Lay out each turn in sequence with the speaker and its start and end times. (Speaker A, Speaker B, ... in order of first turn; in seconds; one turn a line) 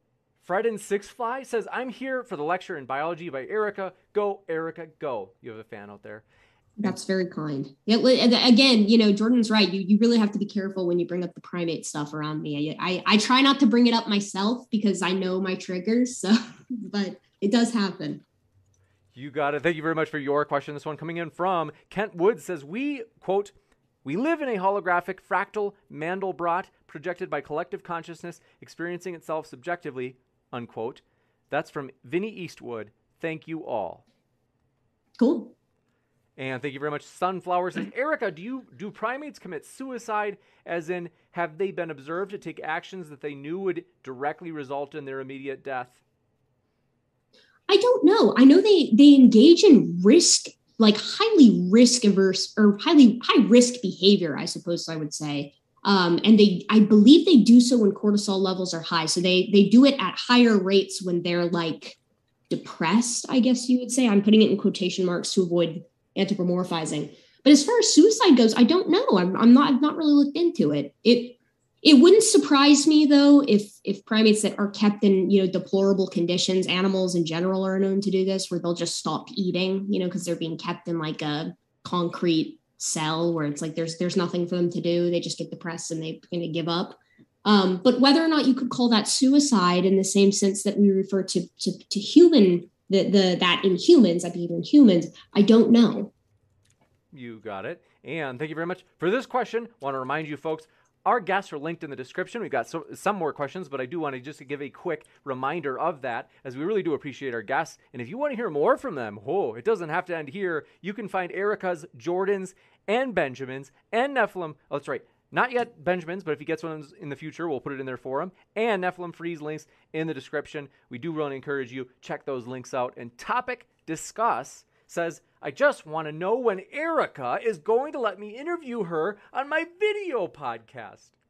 Speaker A: 0.4-6.2
Speaker B: 6.8-18.2
Speaker A: 19.1-23.5
Speaker A: 24.0-34.0
Speaker B: 35.2-35.5
Speaker A: 36.4-46.0
Speaker B: 47.7-62.0
Speaker B: 62.5-96.1
Speaker A: 97.1-131.1